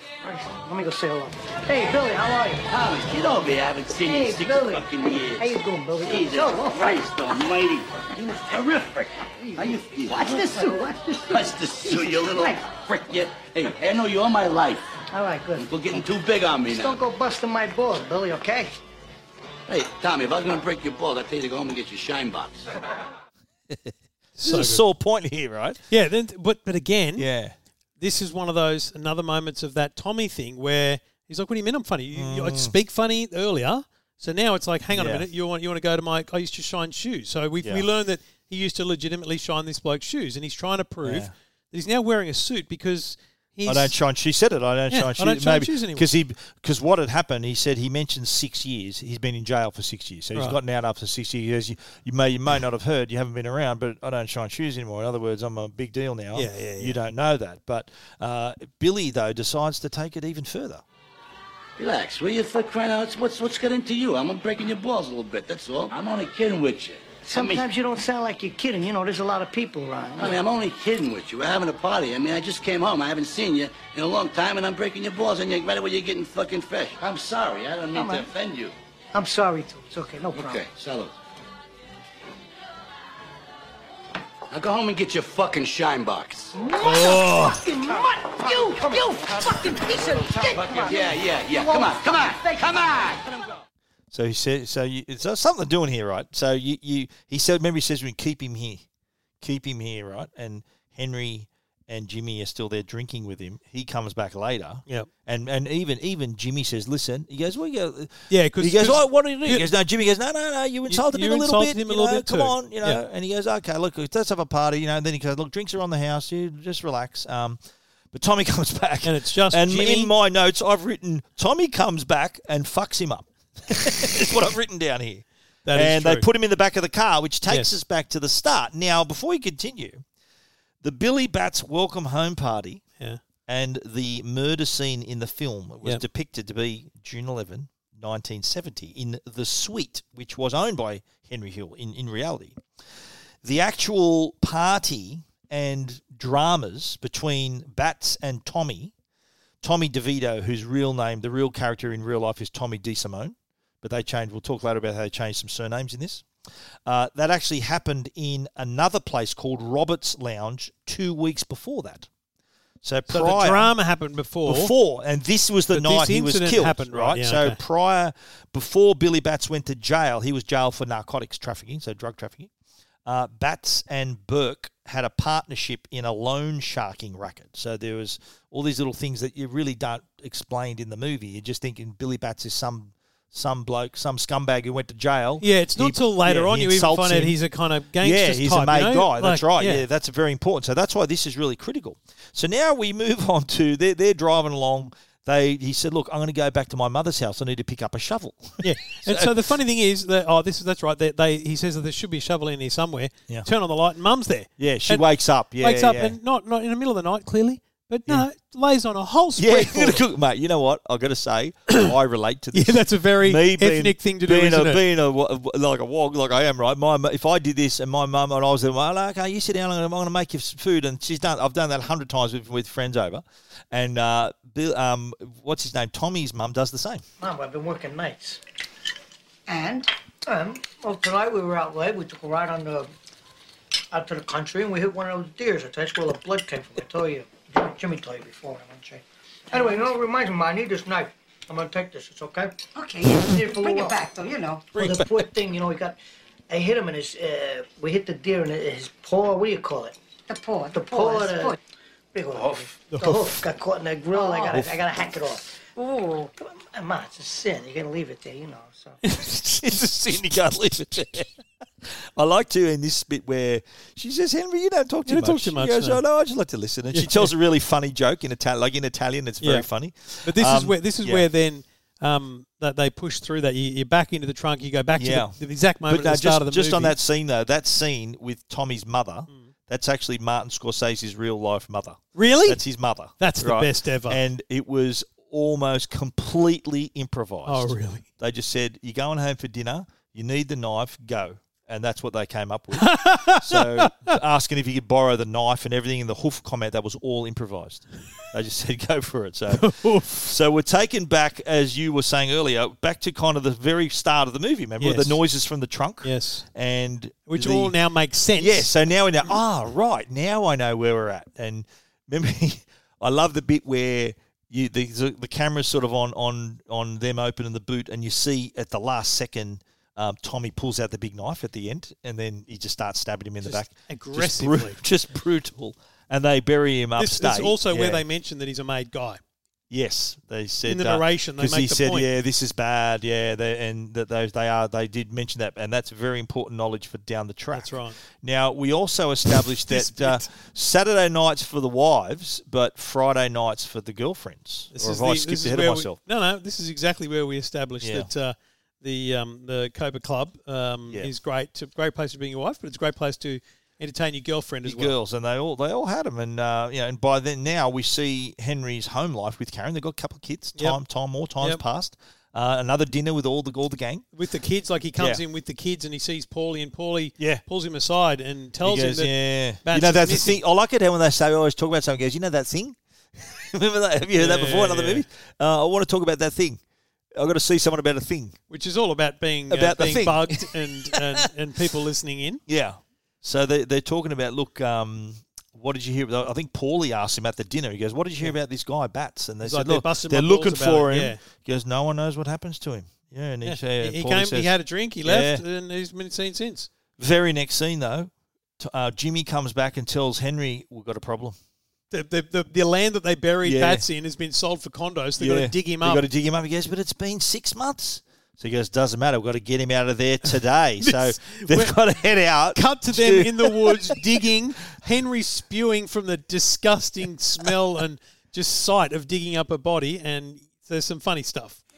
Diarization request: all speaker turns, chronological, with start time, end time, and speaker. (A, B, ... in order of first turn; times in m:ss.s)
0:00.2-0:02.6 A
0:02.7-0:10.7 B
0:04.0-0:04.8 A
0:05.4-0:06.9 A
0:09.4-0:12.5 A
0:11.3-0:14.9 B
0:15.1-0:15.8 A
0:15.6-0:17.0 B
0:16.7-0:18.7 A
0:19.7-0:22.6 B
0:24.4-0:24.8 C
0:24.4-0:25.8 D
0:25.9-0:27.3 C
0:27.2-0:27.5 D
0:28.0-0:44.0 C
0:32.1-0:32.7 D
0:34.9-0:35.2 D
0:41.0-0:41.3 D
0:43.7-1:00.8 D
0:44.9-0:46.1 C
0:56.3-0:57.0 C
1:01.8-1:07.6 B
1:07.2-1:10.4 A
1:10.2-1:18.7 B
1:17.9-1:18.2 A
1:19.1-1:20.6 A
1:20.3-1:21.1 B
1:24.5-1:26.6 B
1:26.5-1:31.9 A
1:26.8-1:27.6 C
1:30.5-1:33.2 B
1:34.1-1:38.8 D
1:39.4-1:57.6 D
1:48.3-1:49.7 C
1:50.9-1:53.0 C
1:58.1-2:10.0 D
1:59.0-2:00.1 C
2:05.6-2:06.2 C
2:07.5-2:07.8 C
2:10.8-2:12.8 D
2:13.5-2:22.6 D
2:23.4-2:28.9 D
2:29.6-2:36.2 D
2:36.8-2:42.1 D
2:42.8-2:43.7 D
2:43.1-2:44.7 C
2:44.4-2:52.5 D
2:45.7-2:47.6 C
2:53.0-3:07.4 D
3:05.4-3:09.8 C
3:08.0-3:19.3 D
3:18.6-3:25.0 C
3:24.6-3:26.2 D
3:25.6-3:30.0 C
3:29.4-3:47.0 D
3:32.5-3:34.8 C
3:47.2-3:48.4 A
3:49.5-3:52.9 A
3:53.9-4:04.0 A
4:02.8-4:04.7 E
4:04.8-4:06.0 A
4:06.5-4:09.9 A
4:10.3-4:11.6 E
4:10.7-4:11.6 A
4:12.1-4:19.0 A
4:19.0-4:31.2 D
4:25.0-4:26.0 C
4:26.9-4:27.3 C
4:29.4-4:29.7 C
4:30.2-4:36.9 C
4:35.0-5:07.7 D
4:42.1-4:42.6 C
4:43.2-4:44.2 C
4:47.5-4:48.0 C
4:52.7-4:54.1 C
4:59.5-5:00.3 C
5:04.8-5:05.2 C
5:06.0-5:06.5 C
5:07.3-5:09.4 C
5:08.4-5:28.0 D
5:23.4-5:24.8 C
5:27.0-5:29.2 C
5:29.7-5:46.0 D
5:30.6-5:32.1 C
5:37.5-5:38.0 C
5:39.7-5:40.3 C
5:44.7-5:54.9 C
5:47.8-5:48.1 D
5:54.6-6:04.0 D
6:04.1-6:10.4 C
6:08.6-6:16.6 D
6:14.2-6:15.0 C
6:17.1-6:18.4 D
6:18.5-6:22.4 C
6:19.5-6:21.2 D
6:22.5-6:34.5 D
6:29.4-6:31.2 C
6:33.4-6:36.7 C
6:35.0-6:35.4 D
6:37.0-6:41.4 D
6:41.9-6:46.0 C
6:43.4-6:43.8 D
6:45.2-6:54.0 D
6:50.8-6:51.8 C
6:52.5-7:01.6 C